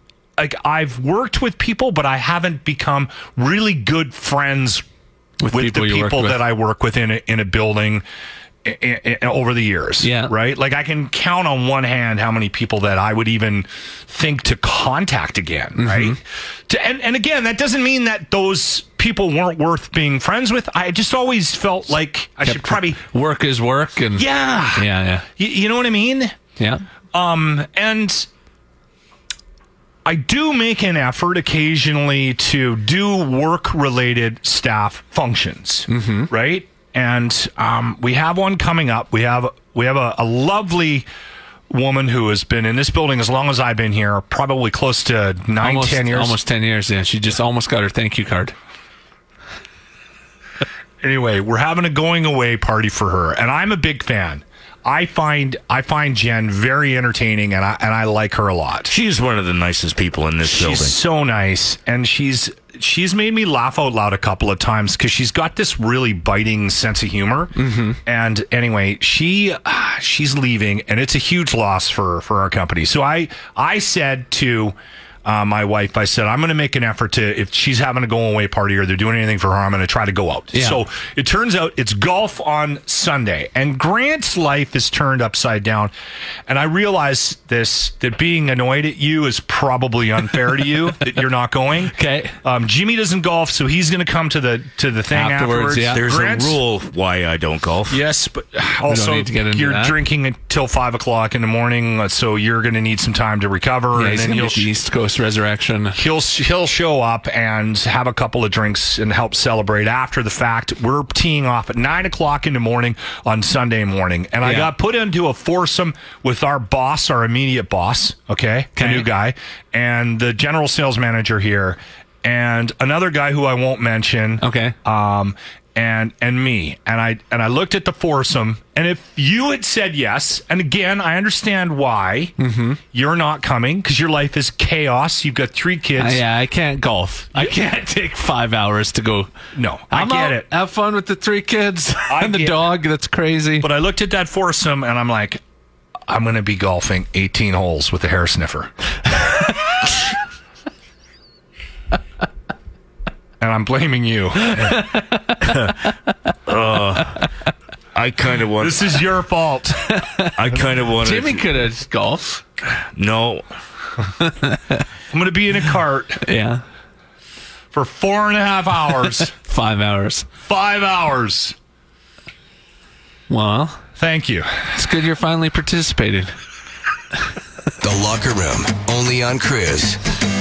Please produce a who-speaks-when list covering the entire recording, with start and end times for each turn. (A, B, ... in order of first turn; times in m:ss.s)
0:00.4-0:04.8 A
0:05.4-0:06.4 B
0:05.5-0:08.0 A
0:08.6-0:23.0 A
0:10.0-0:10.3 B
0:15.8-0:16.2 B
0:22.4-0:25.2 B
0:24.2-0:24.8 A
0:25.4-0:26.3 A
0:26.6-0:26.8 B
0:27.1-0:28.3 A
0:30.0-0:41.0 A
0:35.9-0:36.3 B
0:41.7-0:46.4 A
0:45.6-0:48.5 B
0:51.0-0:58.9 A
0:58.9-1:01.0 C
1:00.5-1:25.9 A
1:07.6-1:08.0 B
1:20.5-1:20.8 B
1:26.5-1:36.6 A
1:31.9-1:32.3 B
1:35.1-1:36.0 B
1:35.9-1:38.0 C
1:37.9-1:44.7 A
1:38.9-1:40.0 B
1:43.9-1:46.0 B
1:46.0-2:12.3 A
1:54.4-1:54.7 B
1:58.8-1:59.1 B
2:04.4-2:04.7 B
2:12.4-2:12.8 B
2:12.9-2:16.2 A
2:16.0-2:19.3 B
2:19.5-2:20.5 A
2:19.9-2:23.7 B
2:22.1-2:22.6 A
2:23.6-2:25.4 A
2:26.1-2:28.7 A
2:33.4-2:34.9 A
2:34.6-2:35.4 B
2:35.4-2:35.7 C
2:36.5-2:37.2 C
2:37.9-2:38.9 C
2:38.6-2:39.9 A
2:39.9-2:40.3 B
2:40.4-2:41.4 C
2:41.0-2:42.2 B
2:42.9-2:43.4 C
2:44.2-2:44.8 B
2:45.1-2:46.2 A
2:46.2-2:46.6 B
2:47.7-2:49.3 A
2:49.3-2:50.3 B
2:50.4-2:51.5 A
2:53.3-2:53.8 B
2:54.0-2:54.7 A
2:54.7-2:56.3 B
2:57.8-3:00.0 D